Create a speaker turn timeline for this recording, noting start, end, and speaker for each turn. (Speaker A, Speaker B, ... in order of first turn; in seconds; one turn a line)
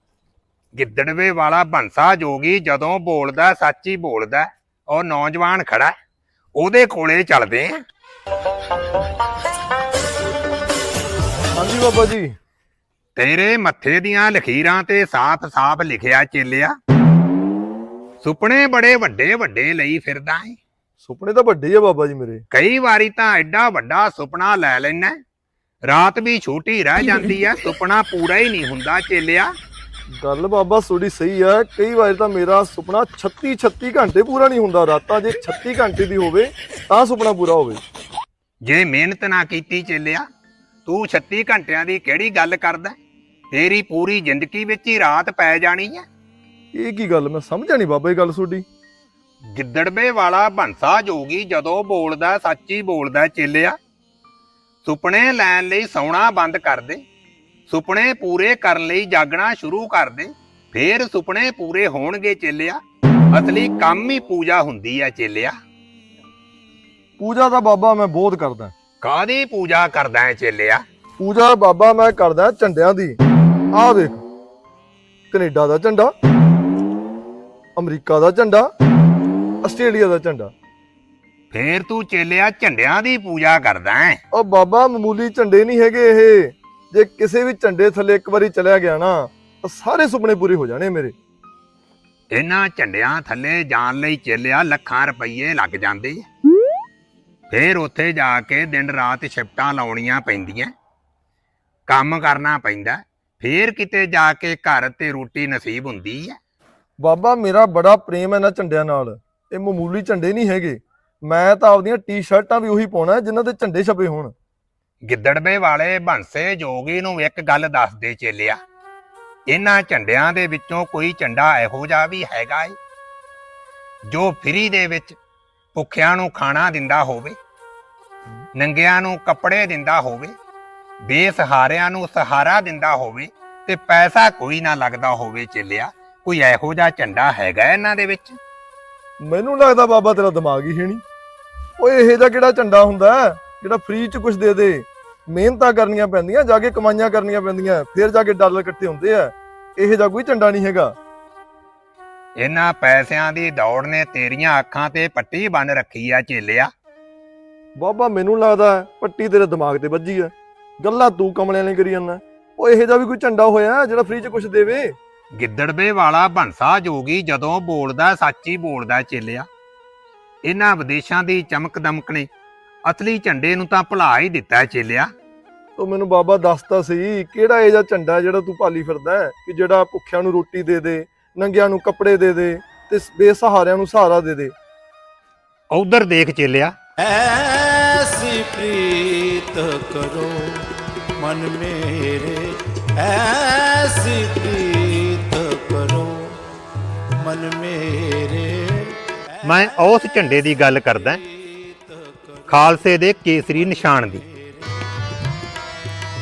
Speaker A: 0.7-5.9
Speaker A: 6.6-7.8
Speaker B: 11.6-12.3
Speaker A: 13.2-16.7
Speaker A: 18.2-20.6
Speaker B: 21.0-22.4
Speaker A: 22.5-25.2
Speaker A: 25.9-29.5
Speaker B: 30.1-37.8
Speaker A: 38.6-40.2
Speaker A: 40.9-43.0
Speaker A: 43.5-46.0
Speaker B: 46.7-48.6
Speaker A: 49.5-53.8
Speaker A: 54.9-57.0
Speaker A: 57.7-62.8
Speaker A: 63.3-65.5
Speaker B: 67.2-68.7
Speaker A: 69.0-70.8
Speaker B: 71.2-73.2
Speaker B: 73.7-74.2
Speaker B: 75.3-76.1
Speaker B: 77.8-78.7
Speaker B: 79.6-80.5
Speaker A: 81.5-84.2
Speaker B: 84.3-91.1
Speaker A: 92.3-96.2
Speaker A: 97.5-100.7
Speaker A: 101.9-106.4
Speaker B: 107.0-114.3
Speaker A: 115.0-118.6
Speaker A: 119.5-122.8
Speaker A: 124.1-125.2
Speaker A: 125.8-127.4
Speaker A: 128.6-130.3
Speaker A: 131.0-138.4
Speaker B: 139.2-141.0
Speaker B: 141.8-151.0
Speaker A: 152.4-156.7
Speaker B: 157.8-164.9
Speaker A: 165.4-169.5
Speaker A: 170.4-172.3
Speaker A: 172.9-175.1
Speaker B: 175.8-184.5
Speaker A: 185.7-186.7
Speaker C: 187.0-196.4
Speaker C: 197.1-199.5
Speaker A: 199.4-201.2
Speaker C: 201.1-202.6
Speaker A: 202.5-204.2
Speaker C: 204.2-204.9